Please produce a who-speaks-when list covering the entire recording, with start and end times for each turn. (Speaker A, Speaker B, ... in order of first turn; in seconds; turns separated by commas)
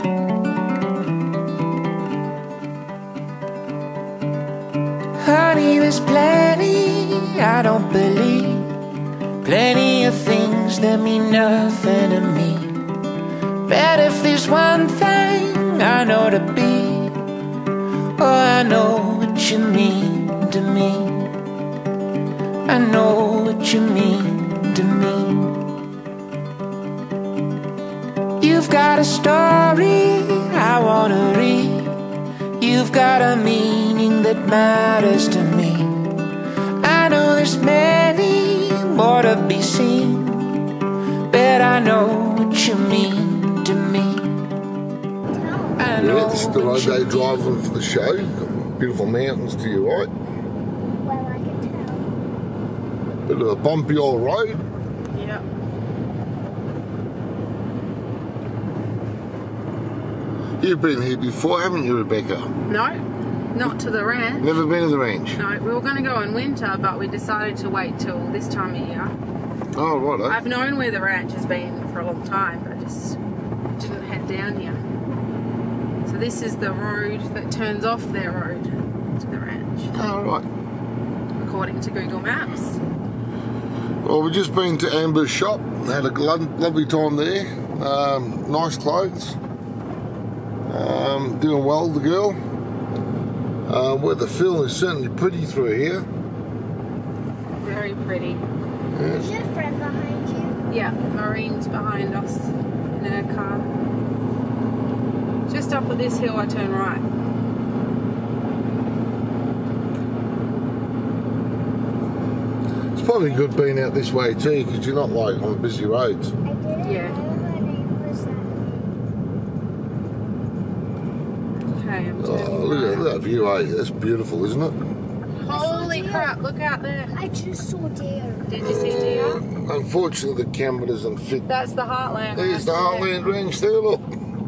Speaker A: 5.2-8.7, Speaker A: 9.4-12.8, Speaker A: 13.7-17.2, Speaker A: 18.2-21.4, Speaker A: 22.6-25.6, Speaker A: 28.4-32.0, Speaker A: 32.6-36.0, Speaker A: 36.8-40.6, Speaker A: 41.3-44.3, Speaker B: 45.4-45.7, Speaker A: 45.8-47.4, Speaker C: 46.0-50.1, Speaker B: 51.0-52.1, Speaker C: 53.2-54.6, Speaker D: 55.1-55.4, Speaker C: 60.6-62.5, Speaker D: 62.7-63.0, Speaker D: 63.5-64.5, Speaker C: 64.4-65.4, Speaker D: 65.3-69.1, Speaker C: 69.7-70.4, Speaker D: 70.2-73.2, Speaker D: 73.8-74.8, Speaker D: 76.0-79.9, Speaker C: 79.9-80.5, Speaker D: 81.4-82.8, Speaker C: 84.0-89.4, Speaker C: 90.7-92.4, Speaker C: 93.6-96.1, Speaker D: 97.6-98.4, Speaker C: 98.9-99.3, Speaker B: 99.1-100.6, Speaker D: 100.7-103.7, Speaker D: 105.5-107.0, Speaker C: 112.9-116.3, Speaker B: 116.4-118.7, Speaker D: 116.8-117.2, Speaker D: 121.7-123.1, Speaker C: 122.2-124.8, Speaker D: 125.4-127.1, Speaker B: 125.5-126.3, Speaker B: 127.1-129.2, Speaker D: 128.5-129.4, Speaker C: 128.6-131.5, Speaker D: 131.5-133.1, Speaker C: 132.3-134.1